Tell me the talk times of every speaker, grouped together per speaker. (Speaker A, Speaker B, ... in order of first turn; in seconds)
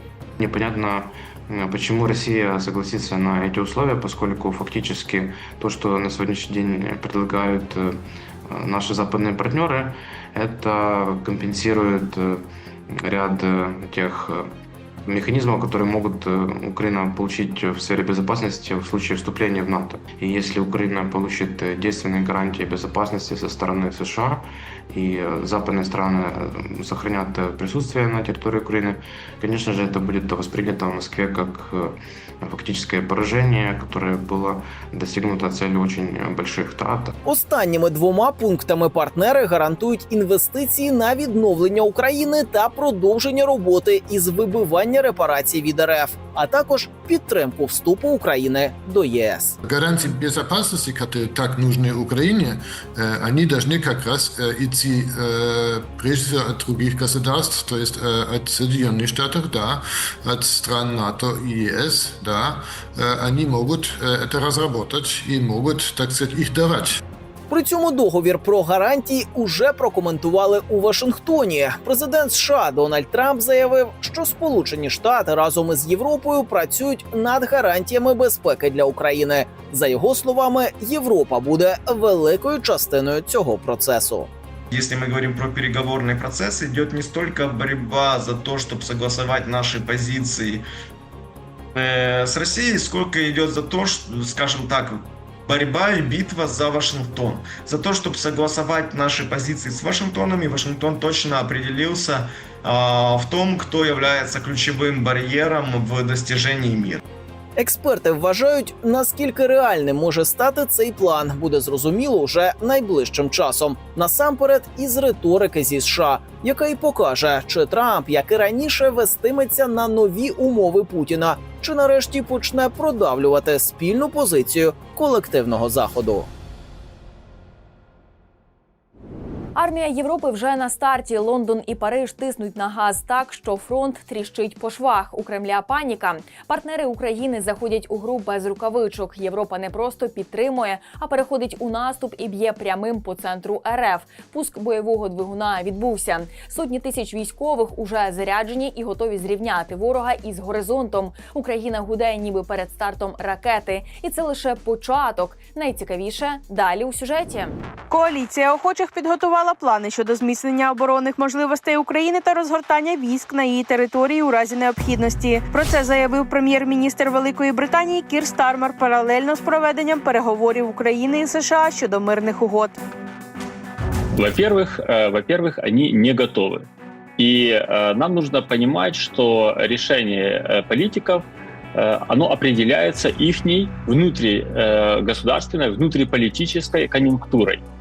Speaker A: 0.4-14.5, 15.1-37.1
Speaker B: 37.2-49.5, 67.5-84.3, 107.6-126.3
Speaker C: 49.6-67.0
Speaker D: 84.7-90.6, 91.7-107.0
Speaker E: 129.6-157.5
Speaker F: 157.9-172.8
Speaker G: 174.1-181.2, 181.7-187.6